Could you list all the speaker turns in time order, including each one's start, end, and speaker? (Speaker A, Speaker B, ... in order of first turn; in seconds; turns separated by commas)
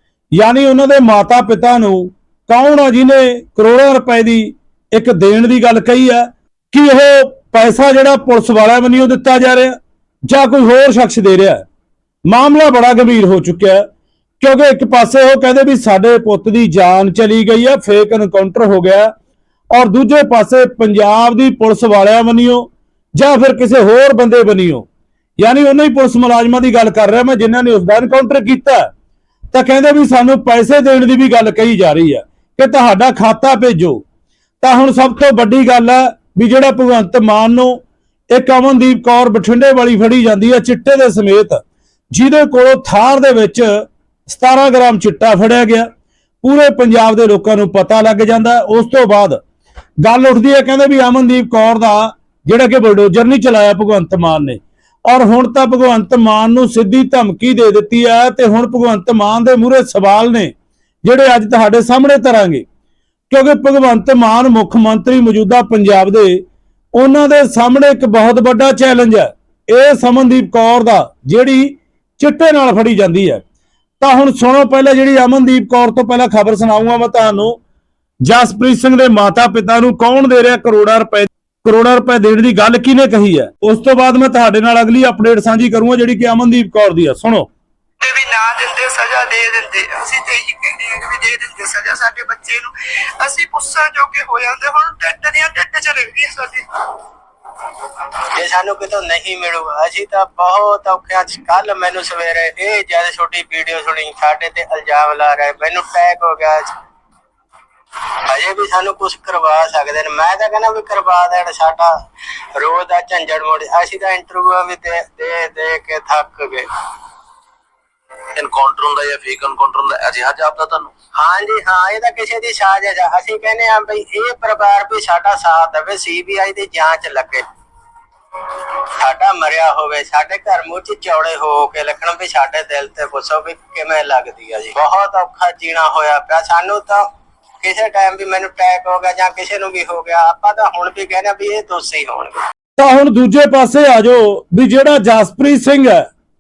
Speaker A: 0.3-9.8, Speaker A: 10.3-11.6, Speaker A: 12.3-13.8, Speaker A: 14.4-19.1, Speaker A: 19.7-24.9, Speaker A: 25.4-28.9, Speaker A: 29.5-34.0, Speaker A: 34.6-45.9, Speaker A: 46.4-49.4, Speaker A: 50.0-62.6, Speaker A: 63.3-66.4, Speaker A: 66.9-73.4, Speaker A: 74.0-77.6, Speaker A: 78.2-87.5, Speaker B: 88.0-97.0, Speaker C: 98.3-106.7, Speaker C: 108.3-111.9, Speaker C: 112.6-116.7, Speaker D: 118.4-120.9, Speaker C: 121.2-127.4, Speaker C: 128.5-137.0, Speaker C: 137.6-142.4, Speaker A: 142.8-146.1